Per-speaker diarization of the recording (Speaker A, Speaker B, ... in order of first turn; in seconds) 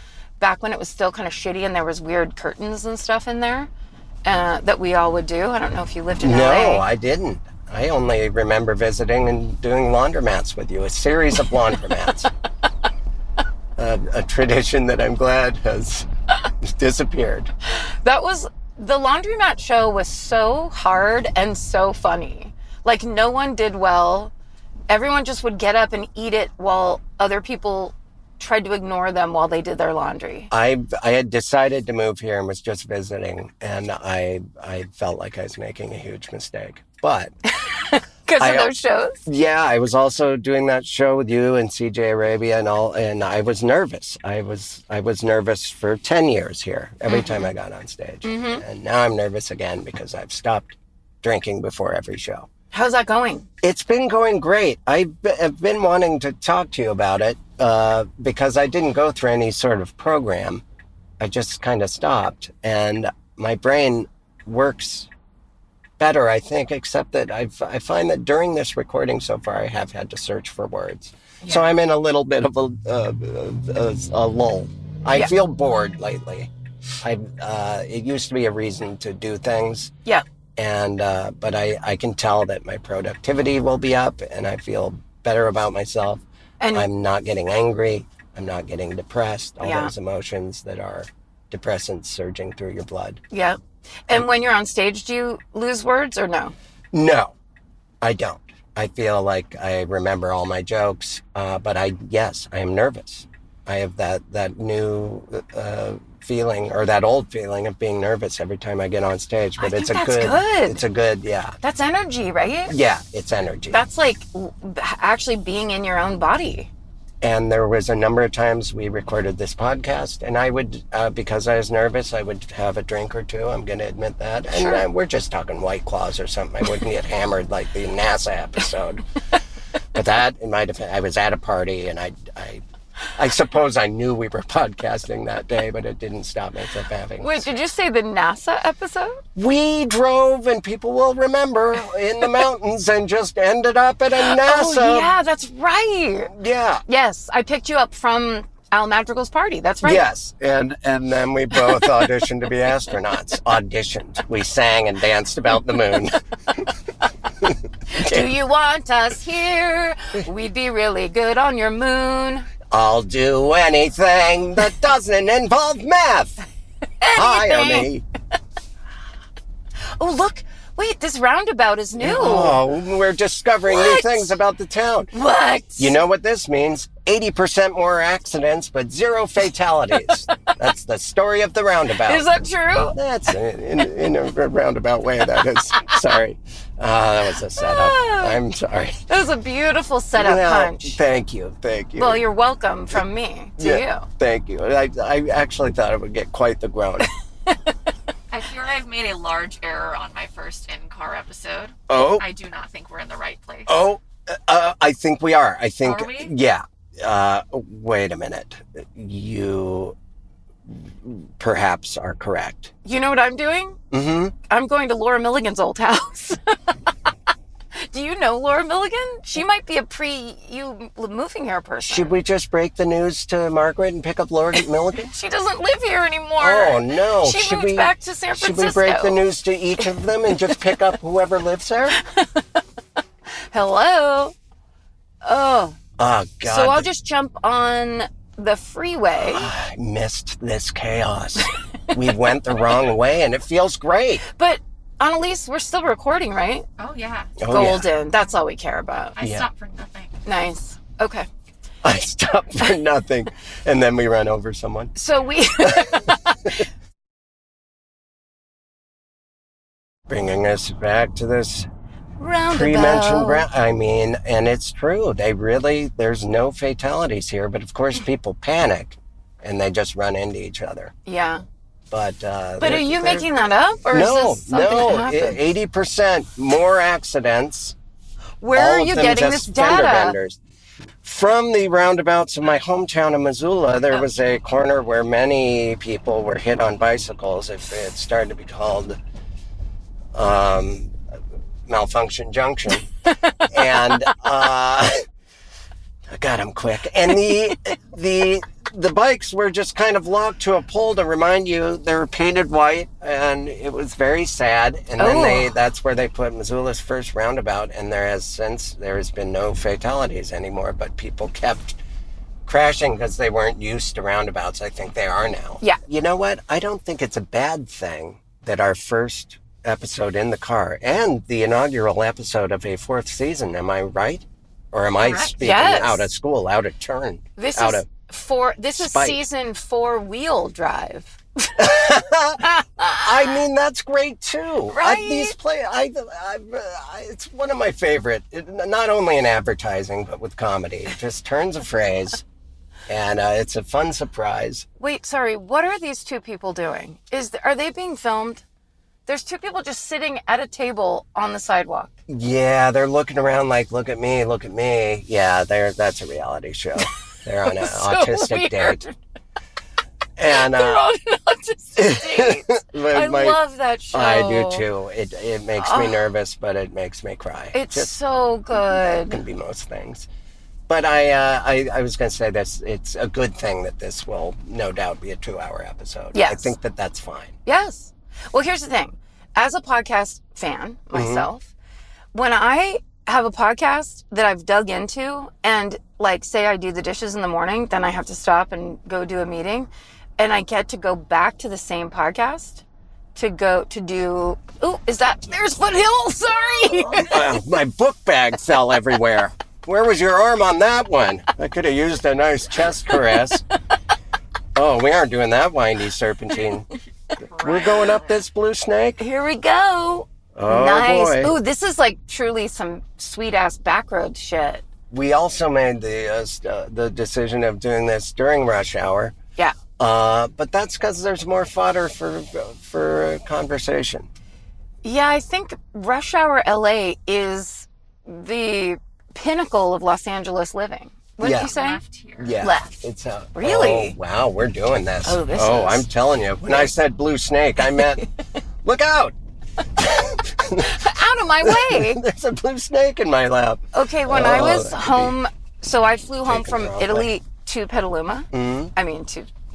Speaker A: 0.4-3.7, 4.2-6.8, 17.7-24.3, 24.9-30.5, 37.6-39.2, 47.1-47.5, 48.2-48.6, 52.7-53.5, 86.6-86.9, 89.6-89.9, 93.3-96.5, 109.6-110.8, 111.6-112.7, 113.7-116.7, 137.2-139.2, 144.3-146.3, 146.9-150.1, 157.9-162.5, 167.0-167.9, 169.9-172.6, 173.7-174.3, 175.1-175.9, 182.0-183.0, 187.6-188.4, 189.1-191.0, 192.0-194.1, 212.8-213.8, 214.5-216.6, 217.7-222.2, 225.0-229.2, 232.0-232.6, 233.5-234.3, 235.2-235.8, 236.4-239.5, 244.2-246.7, 247.5-249.2, 250.2-251.3, 254.9-256.5, 262.2-263.5, 271.1-271.4, 272.6-275.4, 278.4-280.2, 305.0-305.5, 325.1-326.1, 327.4-331.7, 332.4-333.1, 334.7-335.4, 344.8-348.4, 349.1-351.9, 357.4-358.9, 360.3-364.6, 365.6-366.1, 367.5-369.2, 376.1-376.5, 377.4-381.5, 382.1-392.6, 393.1-397.2, 409.0-414.6, 424.8-431.8, 432.4-433.9, 435.0-435.9, 440.6-442.0, 443.7-449.3
Speaker B: 6.2-12.3, 13.8-16.1, 16.6-17.5, 30.5-37.3, 38.4-38.7, 39.2-52.5, 53.6-60.6, 61.2-65.1, 66.0-76.5, 77.0-79.9, 80.6-86.2, 86.7-93.2, 96.9-97.3, 98.0-111.6, 112.7-113.8, 117.2-129.0, 129.9-132.6, 133.2-137.5, 139.4-145.1, 146.3-146.8, 149.8-156.7, 157.4-158.3, 162.7-166.4, 167.1-168.0, 172.0-175.1, 175.8-182.2, 182.9-189.0, 190.1-192.2, 193.6-197.1, 201.9-202.2, 203.7-209.9, 210.7-212.7, 213.9-214.3, 221.9-225.1, 226.4-232.0, 236.0-236.9, 239.2-244.2, 247.4-247.9, 249.2-249.5, 251.8-254.9, 255.6-256.1, 260.1-261.7, 262.5-270.9, 271.9-273.3, 273.9-277.8, 278.5-280.4, 281.0-289.0, 290.1-290.9, 291.7-292.9, 293.5-295.0, 296.1-311.8, 312.4-327.9, 328.7-329.2, 331.6-342.2, 342.9-344.6, 352.1-358.8, 360.2-360.9, 361.8-363.4, 363.9-367.9, 368.5-370.1, 370.7-377.4, 380.9-381.3, 396.9-403.4, 404.5-406.7, 407.4-409.0, 410.4-411.4, 414.9-419.1, 419.8-424.1, 431.2-431.5, 432.2-438.1, 438.6-439.1, 439.8-440.9, 441.4-445.1, 446.2-447.1, 448.3-448.7
Speaker C: 198.3-203.7, 205.8-206.3, 246.8-247.4, 249.2-250.2, 407.2-408.2, 431.3-432.4